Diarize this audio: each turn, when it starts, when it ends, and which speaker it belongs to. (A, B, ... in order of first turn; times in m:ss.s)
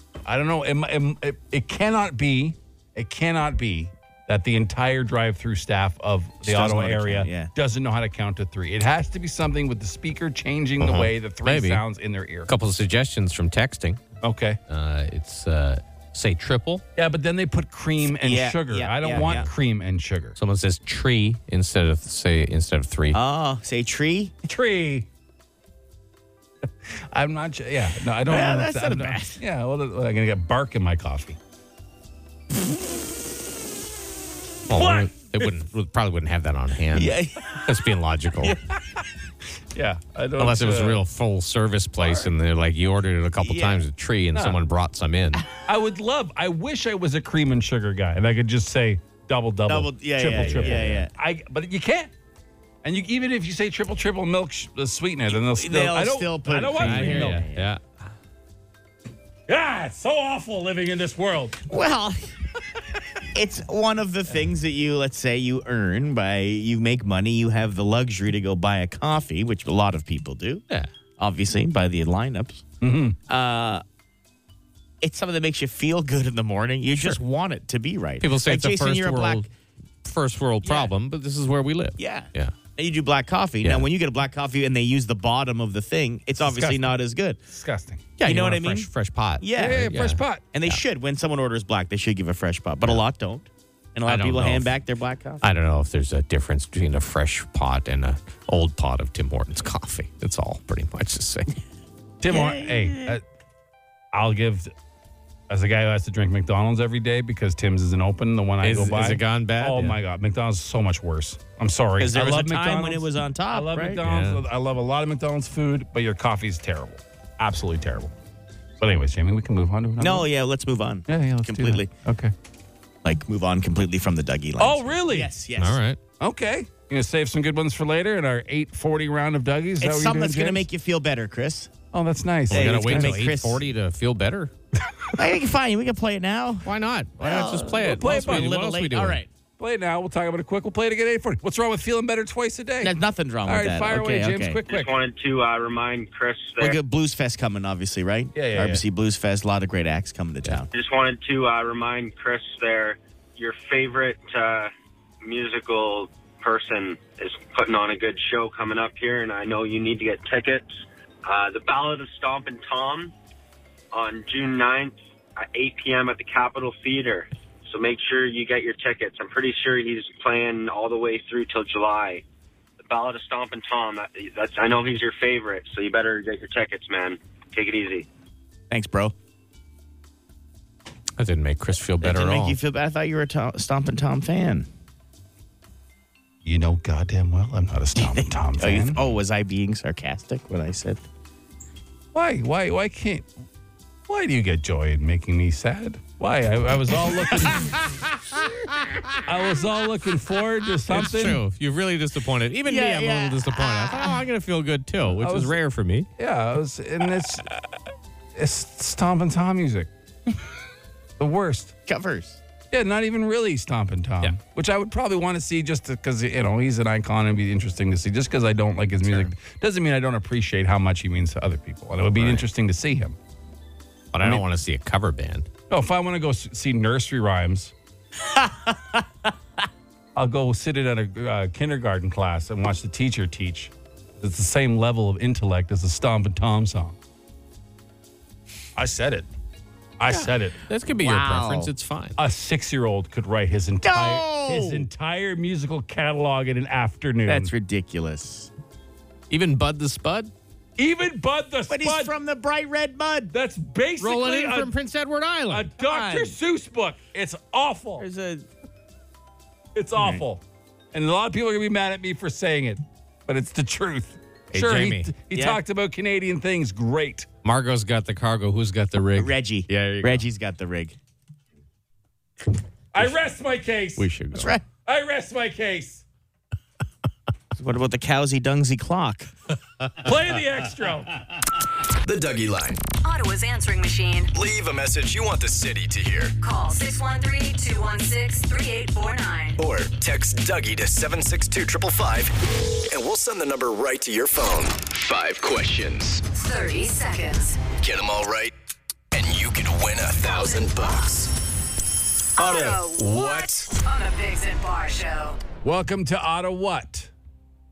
0:00.2-0:12.5 A
0:06.4-0:07.5 B
0:10.8-0:11.8 C
0:12.5-0:14.0 C
0:14.2-0:14.6 A
0:14.7-0:16.8 C
0:17.0-0:20.4 A
0:18.0-0:19.5 B
0:19.2-0:19.4 C
0:20.4-0:23.2 C
0:23.1-0:24.3 B
0:24.4-0:25.1 A
0:27.1-0:31.4 A
0:28.2-0:29.4 B
0:34.7-0:38.6 C
0:34.7-0:35.1 A
0:36.9-0:37.6 B
0:39.7-0:41.0 A
0:40.4-0:45.4 C
0:42.0-0:42.3 A
0:43.4-0:43.8 B
0:44.3-0:44.6 A
0:45.6-0:52.1 A
0:49.6-0:51.1 B
0:50.3-0:51.0 C
0:52.8-0:57.4 A
0:55.3-0:57.7 B
0:56.8-0:57.8 C
0:59.5-1:01.6 A
1:01.7-1:02.3 B
1:03.3-1:10.6 B
1:11.2-1:12.6 B
1:12.8-1:13.2 A
1:13.3-1:13.8 B
1:15.0-1:19.5 B
1:17.0-1:17.2 C
1:18.2-1:19.5 C
1:20.0-1:22.5 C
1:20.6-1:20.9 B
1:22.0-1:27.4 B
1:26.4-1:28.3 A
1:28.2-1:30.8 C
1:28.2-1:30.0 B
1:29.5-1:30.4 A
1:30.5-1:35.4 B
1:34.0-1:34.7 C
1:35.4-1:41.6 C
1:42.2-1:43.2 A
1:42.3-1:43.2 B
1:44.1-1:44.7 A
1:45.5-1:58.1 A
1:48.6-1:50.0 C
1:52.0-1:54.0 B
1:54.0-1:54.4 C
1:58.8-2:00.3 A
2:00.0-2:01.9 B
2:01.1-2:02.3 A
2:03.0-2:05.8 B
2:04.6-2:05.3 A
2:05.6-2:06.0 C
2:06.2-2:10.6 A
2:09.8-2:11.7 B
2:11.9-2:13.2 A
2:12.5-2:13.7 B
2:12.5-2:14.5 C
2:15.2-2:16.7 B
2:16.6-2:19.2 C
2:17.2-2:19.3 B
2:17.8-2:18.6 A
2:19.6-2:24.9 A
2:22.8-2:24.6 B
2:24.7-2:26.8 D
2:26.6-2:30.7 B
2:28.3-2:28.8 A
2:30.7-2:40.7 D
2:41.2-2:43.1 D
2:43.9-2:52.2 D
2:52.8-2:58.0 D
2:58.7-2:59.1 B
3:01.2-3:02.6 C
3:02.0-3:04.7 B
3:06.4-3:09.0 A
3:08.0-3:11.0 B
3:12.1-3:13.3 A
3:14.1-3:18.0 A
3:19.2-3:21.4 A
3:20.9-3:26.1 C
3:22.6-3:24.2 B
3:25.1-3:25.6 A
3:26.2-3:27.5 A
3:28.4-3:29.9 A
3:31.2-3:31.7 A
3:31.8-3:32.4 B
3:32.7-3:43.2 A
3:42.2-3:42.4 C
3:44.1-3:45.5 C
3:45.7-3:47.7 A
3:48.3-3:49.0 B
3:50.1-3:57.0 A
3:58.8-3:59.3 A
4:00.0-4:00.6 A
4:00.1-4:02.2 C
4:01.0-4:01.7 B
4:02.2-4:07.5 A
4:03.8-4:04.9 B
4:07.2-4:08.5 B
4:09.3-4:10.3 C
4:10.8-4:12.1 A
4:11.7-4:13.3 B
4:13.3-4:14.7 A
4:14.0-4:15.7 C
4:15.5-4:18.0 A
4:15.8-4:16.4 B
4:18.0-4:18.4 B
4:19.7-4:27.3 A
4:20.0-4:20.2 B
4:24.5-4:25.1 C
4:25.3-4:25.6 B
4:27.4-4:30.2 C
4:29.2-4:31.0 B
4:32.9-4:34.1 A
4:34.0-4:34.5 C
4:34.3-4:34.6 B
4:34.8-4:36.0 A
4:37.5-4:39.3 B
4:40.0-4:41.2 A
4:42.0-4:42.8 E
4:43.0-4:44.3 F
4:44.3-4:46.3 E
4:46.4-4:49.6 F
4:49.6-4:52.3 E
4:52.9-4:56.2 E
4:56.3-4:57.6 F
4:57.8-4:58.5 E
4:59.1-5:01.3 E
5:00.2-5:00.9 F
5:02.4-5:03.7 E
5:02.4-5:05.4 F
5:05.6-5:07.1 A